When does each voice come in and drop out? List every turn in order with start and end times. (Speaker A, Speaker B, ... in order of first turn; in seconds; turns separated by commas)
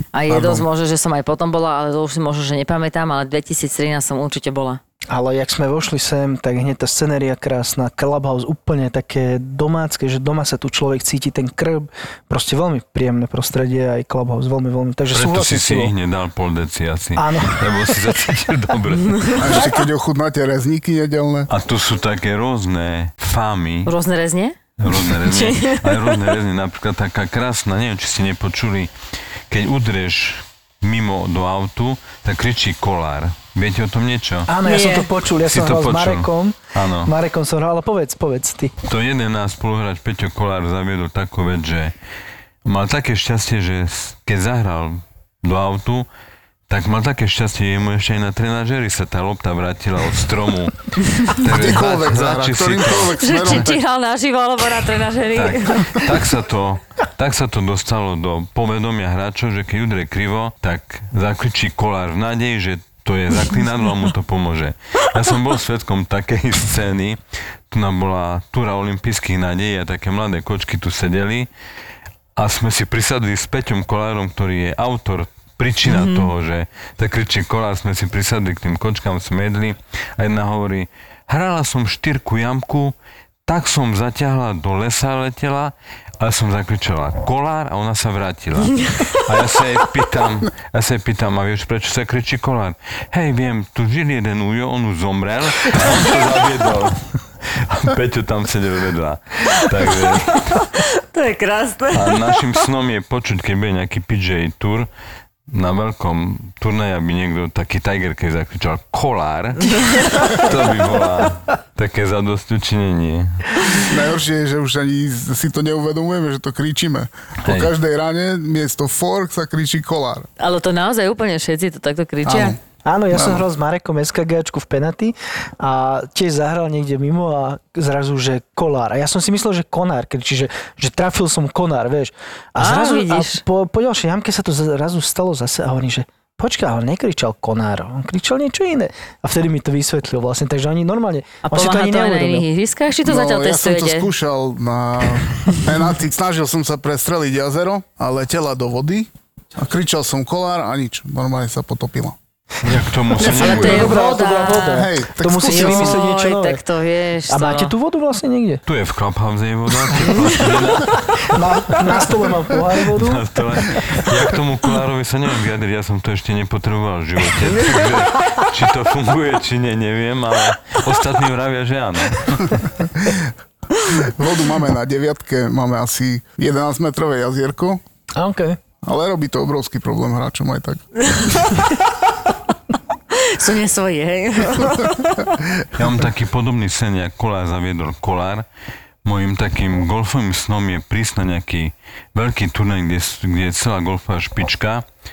Speaker A: 0.1-4.8, Speaker B: 0.3-0.7, Speaker C: 5.1-15.9, Speaker D: 15.1-19.4, Speaker C: 17.2-18.4, Speaker B: 19.3-21.5, Speaker D: 21.5-23.9, Speaker A: 23.9-24.6, Speaker D: 24.8-28.9, Speaker A: 25.1-26.1, Speaker D: 29.5-34.5, Speaker C: 34.5-38.7, Speaker A: 34.7-35.1, Speaker D: 35.4-37.1, Speaker D: 38.8-41.9, Speaker D: 42.6-46.1, Speaker D: 46.7-53.6, Speaker B: 51.5-53.8, Speaker A: 53.2-56.1, Speaker D: 55.4-71.5, Speaker D: 72.4-82.9, Speaker A: 75.8-76.3, Speaker D: 83.5-100.6, Speaker A: 100.7-102.5, Speaker D: 101.9-104.9, Speaker D: 105.5-113.7, Speaker B: 113.8-120.3, Speaker D: 117.5-117.7, Speaker A: 120.4-122.6, Speaker B: 122.2-122.6, Speaker C: 122.8-142.5, Speaker B: 123.1-123.4, Speaker A: 132.6-133.4, Speaker A: 141.4-144.1, Speaker B: 143.0-152.2, Speaker D: 152.6-154.0, Speaker B: 153.2-156.0, Speaker A: 153.4-154.9, Speaker C: 153.5-156.6, Speaker A: 155.4-157.7, Speaker C: 157.3-158.6, Speaker D: 158.7-162.1, Speaker C: 161.2-163.2, Speaker D: 162.9-172.5, Speaker B: 172.9-173.3, Speaker B: 173.9-177.8, Speaker C: 178.2-178.6, Speaker B: 178.8-181.5, Speaker A: 183.1-185.2, Speaker B: 185.4-185.8, Speaker D: 185.8-188.4, Speaker D: 189.0-194.8